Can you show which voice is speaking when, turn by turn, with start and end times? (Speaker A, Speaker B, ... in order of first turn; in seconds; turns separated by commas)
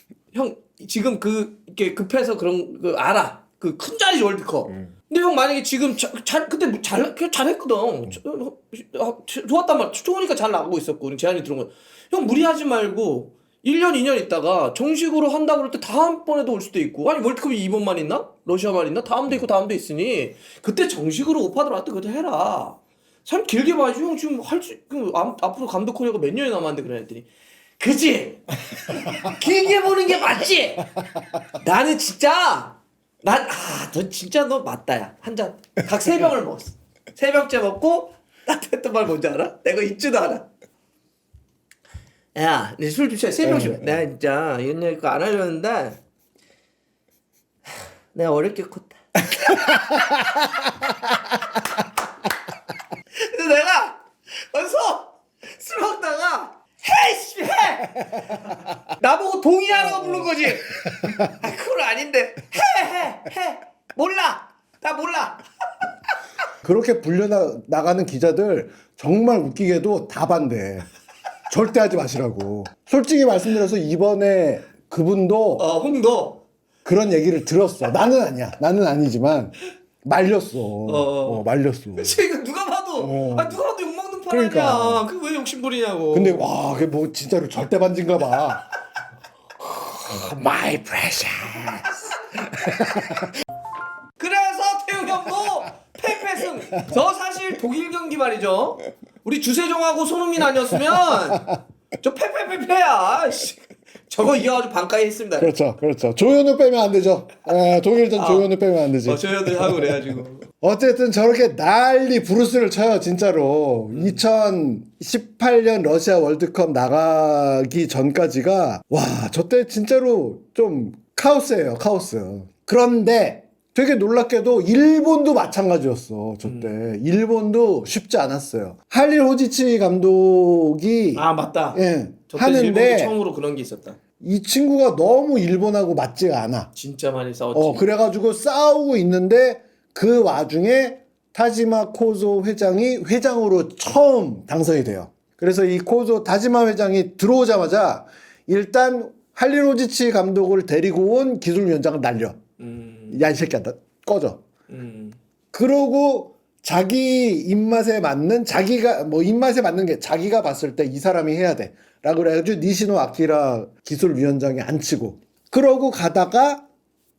Speaker A: 0.3-27.3, Speaker A: 27.8-30.9, Speaker A: 31.6-40.5, Speaker A: 42.4-46.0, Speaker B: 43.4-43.8, Speaker A: 48.1-50.2, Speaker B: 49.4-50.9, Speaker A: 53.2-65.4, Speaker B: 60.0-60.4, Speaker B: 66.6-70.9, Speaker B: 71.5-75.7, Speaker A: 75.6-76.4, Speaker B: 76.8-82.2, Speaker A: 80.8-81.4, Speaker A: 82.0-86.4, Speaker B: 83.0-83.6, Speaker B: 84.3-85.1, Speaker B: 86.1-88.7, Speaker B: 89.7-93.3, Speaker A: 94.2-101.5, Speaker B: 101.0-101.6, Speaker A: 102.0-105.5, Speaker B: 105.4-133.2, Speaker A: 108.2-108.5, Speaker A: 109.0-110.5, Speaker A: 113.9-114.2, Speaker A: 126.4-126.7, Speaker A: 131.2-134.0, Speaker B: 134.2-136.7, Speaker A: 136.8-137.8, Speaker B: 137.5-152.4, Speaker A: 152.6-153.2, Speaker B: 153.1-154.4, Speaker A: 154.7-155.2, Speaker B: 155.5-166.7